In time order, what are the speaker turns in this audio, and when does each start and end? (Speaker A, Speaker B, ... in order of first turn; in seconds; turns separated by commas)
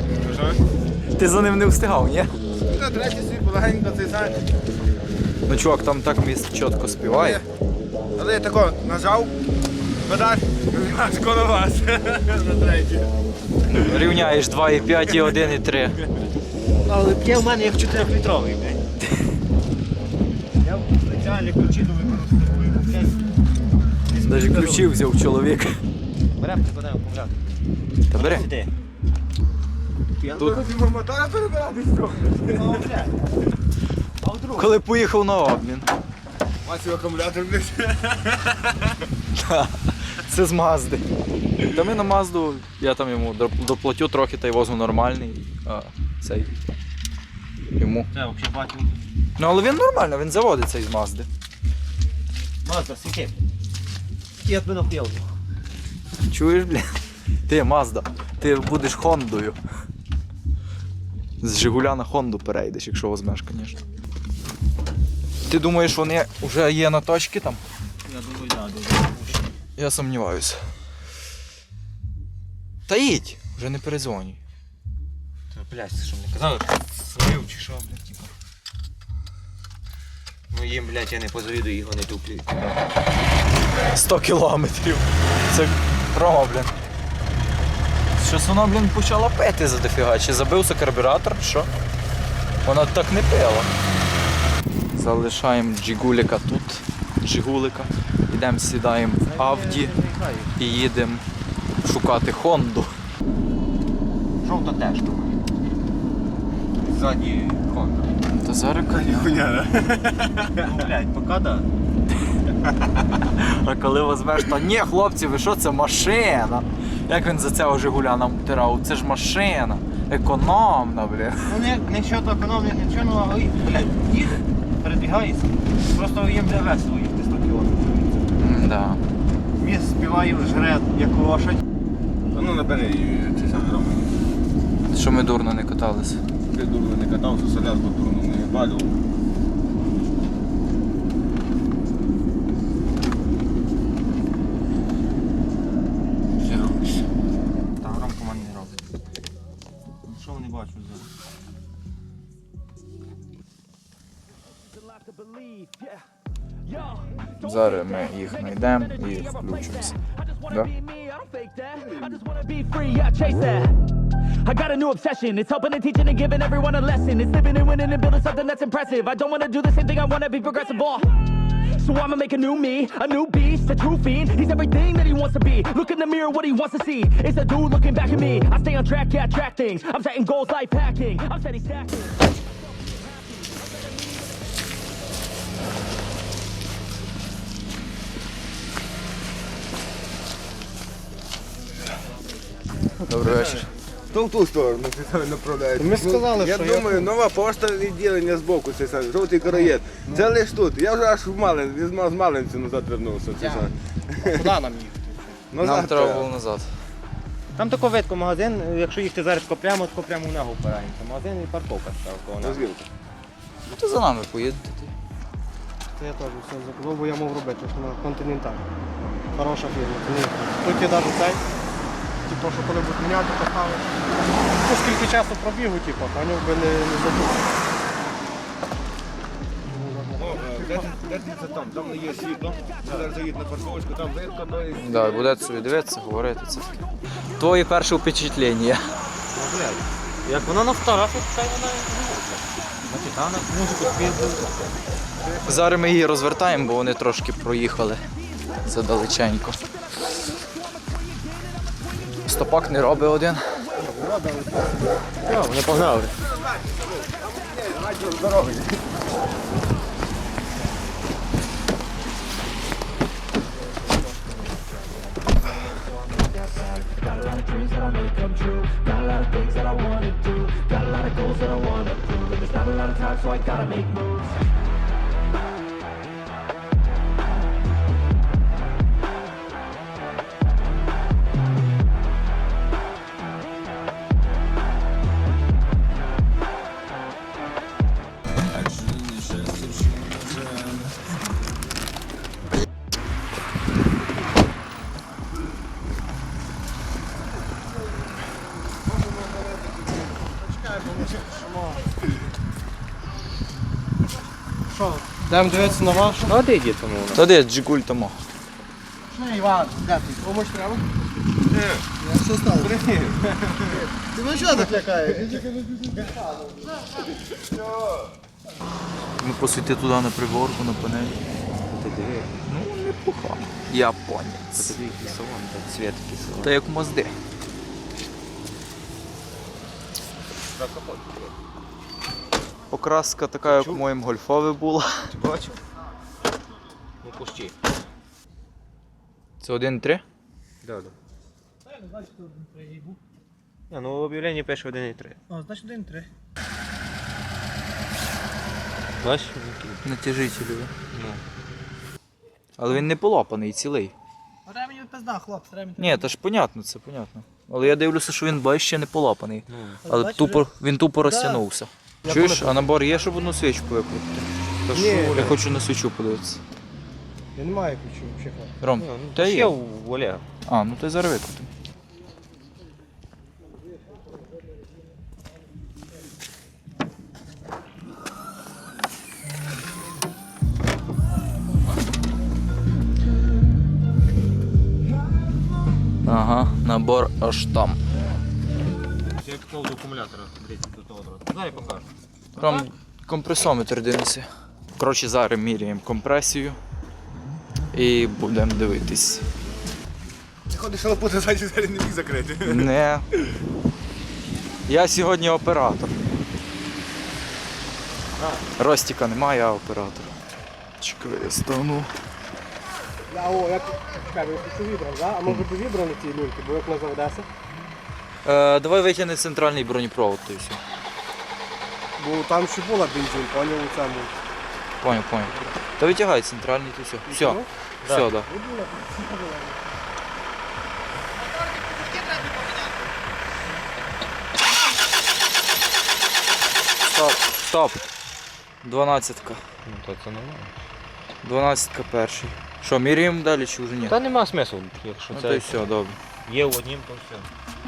Speaker A: 0.2-0.6, Speaker B: 1.2-2.4, Speaker A: 2.6-4.5, Speaker B: 5.5-7.4, Speaker A: 7.1-7.4, Speaker A: 8.2-9.3, Speaker A: 10.1-13.1, Speaker B: 13.7-16.0, Speaker C: 16.9-18.8, Speaker C: 20.6-23.3, Speaker C: 24.1-24.9, Speaker B: 24.1-25.8, Speaker C: 26.4-27.4, Speaker B: 28.1-28.5, Speaker C: 28.1-28.7, Speaker A: 30.2-32.8, Speaker C: 32.5-33.4, Speaker C: 34.2-34.8, Speaker B: 34.6-35.9, Speaker A: 36.6-38.6, Speaker B: 39.4-41.0, Speaker B: 41.6-46.5, Speaker B: 47.8-48.1, Speaker C: 48.1-49.0, Speaker B: 49.4-51.3, Speaker C: 52.6-53.4, Speaker C: 54.4-55.3, Speaker B: 56.3-56.9, Speaker B: 57.5-59.6, Speaker B: 61.4-63.8, Speaker B: 65.5-67.6, Speaker C: 68.0-69.5, Speaker B: 69.8-70.6, Speaker B: 72.9-74.4, Speaker C: 75.5-78.3, Speaker C: 80.5-82.8, Speaker B: 83.9-86.7, Speaker B: 88.2-91.7, Speaker B: 92.7-93.7, Speaker B: 94.9-99.9, Speaker C: 99.2-100.7, Speaker B: 100.6-101.2, Speaker B: 101.8-102.9, Speaker C: 104.4-105.4, Speaker C: 106.8-108.1, Speaker B: 108.3-109.4, Speaker A: 108.9-110.6, Speaker C: 110.5-111.7, Speaker B: 113.2-121.5, Speaker C: 121.5-128.2, Speaker B: 128.4-129.0, Speaker C: 129.6-131.6, Speaker A: 132.3-134.1, Speaker B: 134.9-136.2, Speaker A: 136.5-138.9, Speaker C: 146.4-147.0, Speaker C: 147.8-148.8, Speaker C: 150.1-151.1, Speaker D: 154.7-156.1, Speaker D: 156.7-157.2, Speaker B: 157.3-160.0, Speaker D: 160.2-163.8, Speaker D: 164.4-182.2, Speaker B: 193.1-193.7, Speaker A: 194.1-204.4, Speaker E: 195.8-197.1, Speaker E: 203.4-203.7, Speaker E: 204.2-205.4, Speaker A: 205.5-206.3, Speaker B: 205.6-206.7, Speaker C: 207.6-212.7, Speaker A: 212.4-212.8, Speaker B: 213.7-214.9, Speaker E: 216.0-218.7, Speaker E: 219.3-221.4, Speaker E: 222.2-227.5, Speaker E: 229.7-230.5, Speaker A: 230.2-235.4, Speaker B: 234.8-236.8, Speaker B: 237.4-238.9, Speaker C: 239.3-244.6, Speaker B: 245.4-248.0, Speaker B: 248.6-249.6, Speaker B: 252.2-253.6, Speaker E: 253.8-254.6, Speaker C: 255.2-256.2, Speaker A: 256.3-259.0, Speaker D: 266.2-274.4, Speaker A: 288.6-290.9, Speaker E: 300.3-301.9, Speaker C: 304.8-307.2, Speaker E: 305.2-306.3, Speaker B: 307.1-308.2, Speaker E: 309.1-310.9, Speaker A: 311.5-311.8, Speaker E: 312.0-312.7, Speaker A: 312.5-313.8, Speaker E: 314.0-315.5, Speaker A: 317.4-317.9, Speaker B: 319.2-321.2, Speaker C: 321.7-322.3, Speaker B: 322.4-324.8, Speaker C: 324.6-326.5, Speaker B: 326.4-327.1, Speaker C: 330.5-331.3, Speaker B: 332.7-335.1, Speaker C: 333.5-333.8, Speaker C: 335.1-335.6, Speaker C: 337.0-337.6, Speaker B: 339.4-340.0, Speaker C: 340.6-340.9, Speaker E: 341.8-343.0, Speaker C: 343.7-345.2, Speaker E: 345.3-346.1, Speaker C: 349.0-349.8, Speaker B: 349.8-350.7, Speaker C: 350.9-351.2, Speaker B: 352.6-353.9, Speaker E: 354.5-355.9, Speaker B: 355.8-364.3, Speaker C: 359.5-359.8, Speaker E: 359.9-360.4, Speaker E: 362.1-362.6, Speaker C: 364.7-365.4, Speaker E: 364.7-365.3, Speaker B: 365.0-366.4, Speaker E: 367.4-368.5, Speaker B: 368.6-369.5, Speaker C: 368.8-370.2, Speaker B: 370.5-371.5, Speaker B: 386.1-387.8, Speaker C: 389.0-391.9, Speaker B: 392.4-396.6, Speaker B: 397.7-399.3, Speaker A: 400.5-402.7, Speaker B: 402.5-403.1, Speaker B: 404.7-406.0, Speaker C: 408.2-408.5, Speaker B: 408.6-410.1, Speaker B: 410.8-411.9, Speaker E: 413.1-417.3, Speaker B: 418.2-420.6, Speaker E: 422.0-424.1, Speaker B: 424.8-428.3, Speaker E: 427.2-427.4, Speaker E: 428.3-429.6, Speaker B: 436.8-437.9, Speaker B: 438.6-439.4, Speaker C: 439.6-440.6, Speaker B: 441.2-444.0, Speaker C: 443.9-445.6, Speaker B: 445.1-446.0, Speaker C: 446.2-447.3